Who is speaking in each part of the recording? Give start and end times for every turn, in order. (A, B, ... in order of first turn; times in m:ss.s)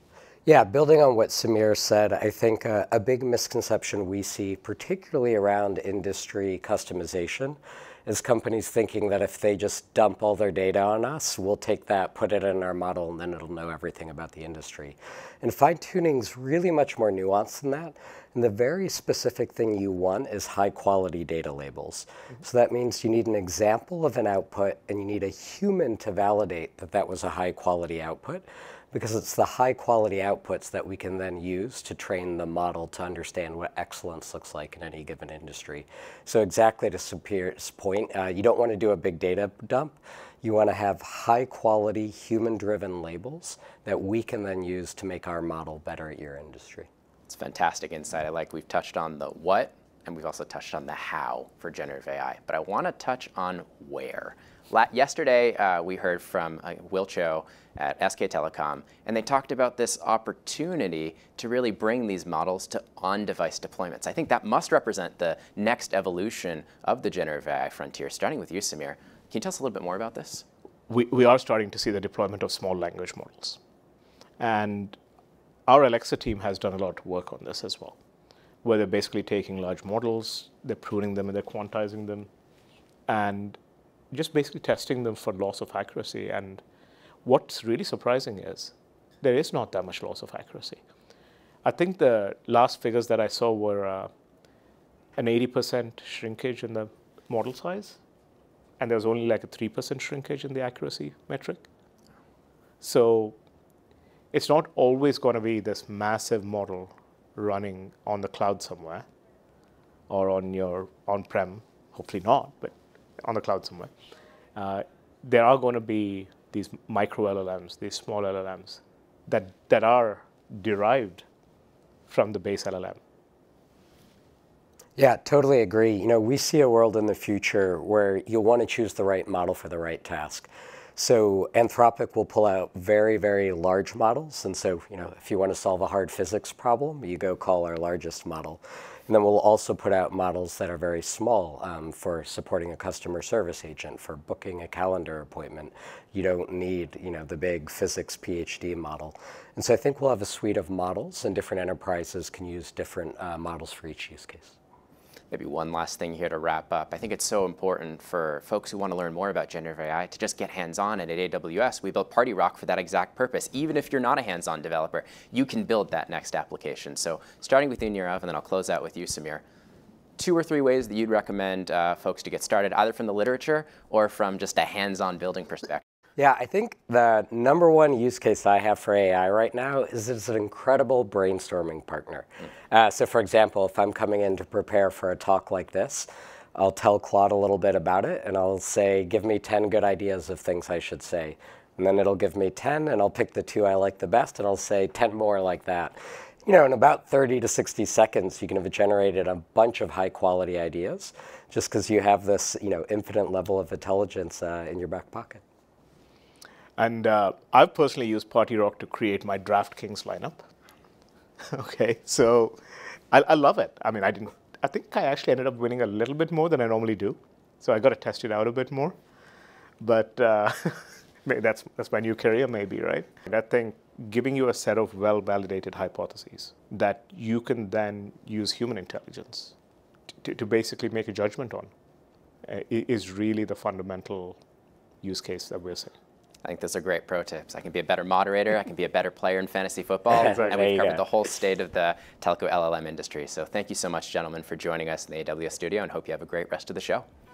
0:00.4-0:46.9 A
0:47.3-1:10.4 B
1:10.9-1:13.6 C
1:14.4-1:15.0 C
1:15.7-1:18.0 C
1:18.6-1:22.3 C
1:23.1-1:23.6 C
1:24.1-1:26.6 C
1:27.2-1:30.8 C
1:31.6-1:34.1 C
1:35.2-1:38.0 C
1:38.8-1:41.6 C
1:42.8-1:43.4 C
1:44.3-1:49.0 C
1:50.1-1:53.9 C
1:54.6-2:01.2 C
2:02.1-2:03.0 C
2:05.0-2:34.5 A
2:35.3-2:49.4 B
2:50.2-2:55.8 B
2:56.2-3:25.4 A
3:26.8-3:30.4 C
3:31.5-3:32.6 C
3:33.1-3:39.0 C
3:39.8-3:49.5 C
3:50.2-3:51.7 C
3:52.4-3:54.4 C
3:55.0-3:55.9 C
3:56.4-4:07.0 B
4:00.1-4:00.4 A
4:00.2-4:01.0 C